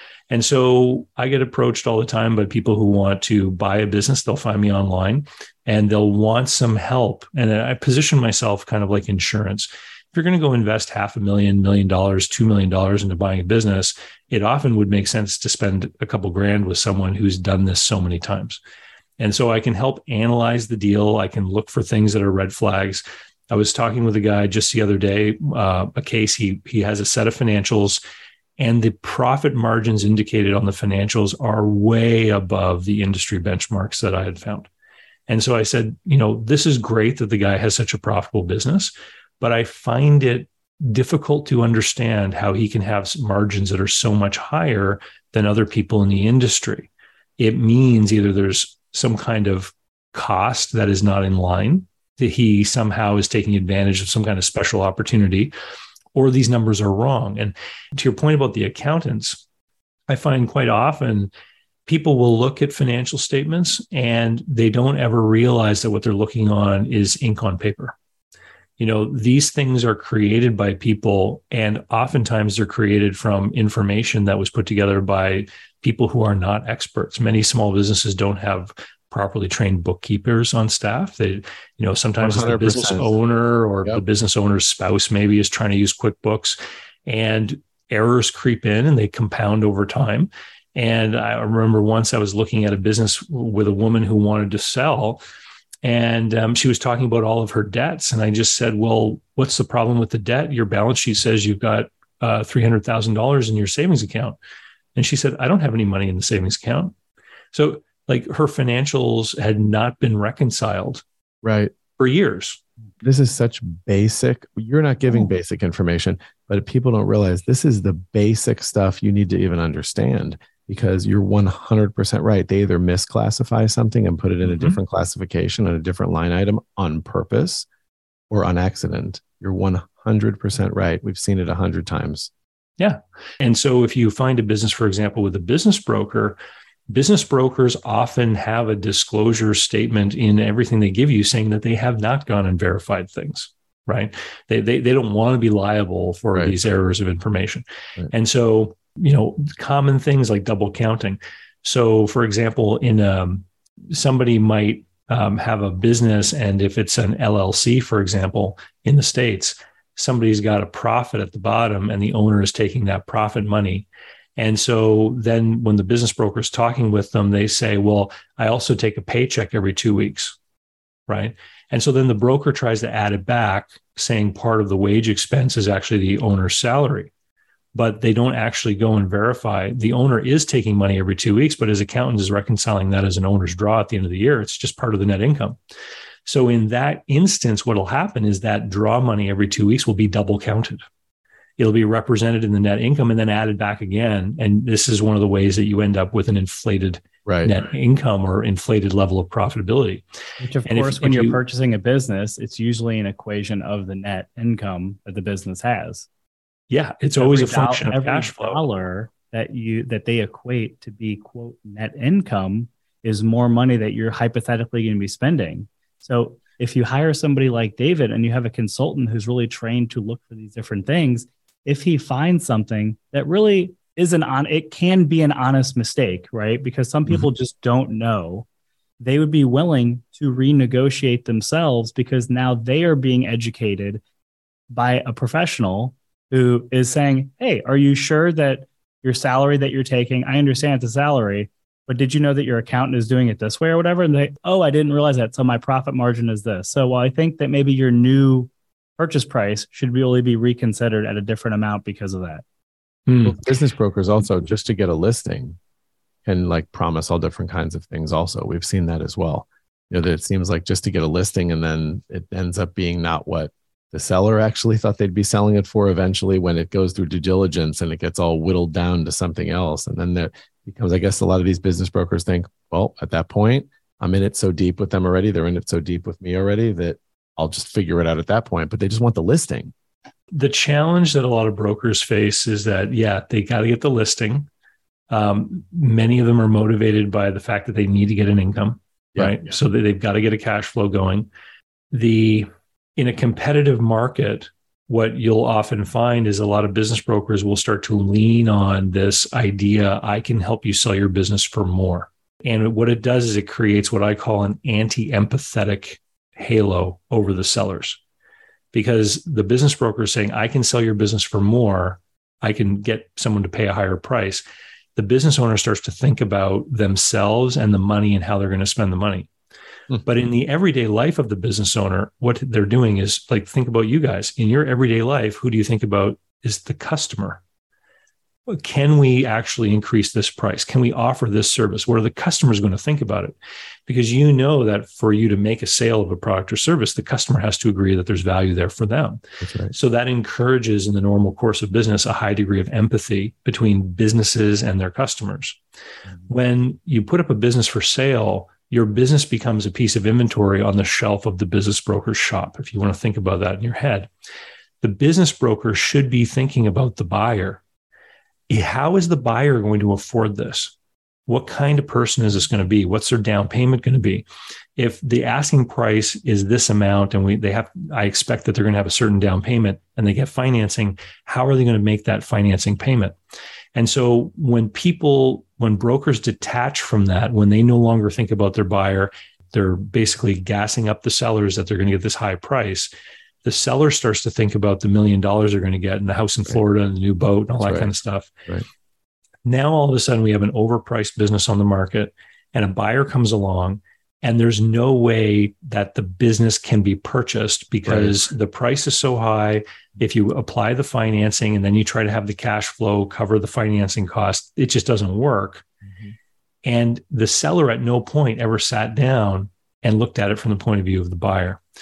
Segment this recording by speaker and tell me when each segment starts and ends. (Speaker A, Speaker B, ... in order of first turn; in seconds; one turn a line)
Speaker A: 0.3-18.6
Speaker A: 19.2-28.0
Speaker A: 28.6-34.7
Speaker A: 35.3-55.5
Speaker A: 56.1-59.4
Speaker A: 60.1-61.3
Speaker A: 61.9-67.9
Speaker A: 68.8-95.2
Speaker B: 82.2-83.1
Speaker A: 95.8-104.4
Speaker A: 105.0-106.9
Speaker A: 107.5-111.0
Speaker B: 111.4-111.7
Speaker A: 112.0-112.6
Speaker B: 113.0-127.7
Speaker A: 124.5-124.8
Speaker B: 128.3-132.3
Speaker A: 132.8-136.4
Speaker A: 136.9-163.8
Speaker A: 164.4-170.4
Speaker A: 171.1-177.1
Speaker A: 177.8-185.6
Speaker A: 186.3-190.8
Speaker A: 191.6-200.0
Speaker B: 197.3-197.5
Speaker C: 200.4-206.1
Speaker A: 200.7-201.4
Speaker A: 206.7-208.6
Speaker C: 207.2-228.5
Speaker C: 229.0-234.0
Speaker C: 234.7-252.4
Speaker A: 253.1-253.4
Speaker B: 253.2-255.6
Speaker B: 256.2-279.7
Speaker A: 280.3-284.5
Speaker A: 285.1-291.3
Speaker A: 291.9-308.0
Speaker A: 308.7-314.4
Speaker A: 315.0-319.3
Speaker A: 320.0-327.4
Speaker A: 328.5-333.4
Speaker A: 333.9-339.2
Speaker B: 339.4-339.7
Speaker A: 339.7-345.6
Speaker A: 346.3-354.1
Speaker A: 354.8-357.6
Speaker A: 358.5-360.7
Speaker A: 361.3-364.2
Speaker A: 364.8-373.2
Speaker A: 373.8-382.9
Speaker A: 383.4-388.3
Speaker B: 387.6-387.9
Speaker A: 389.4-405.6
Speaker B: 397.9-398.2
Speaker A: 406.6-411.6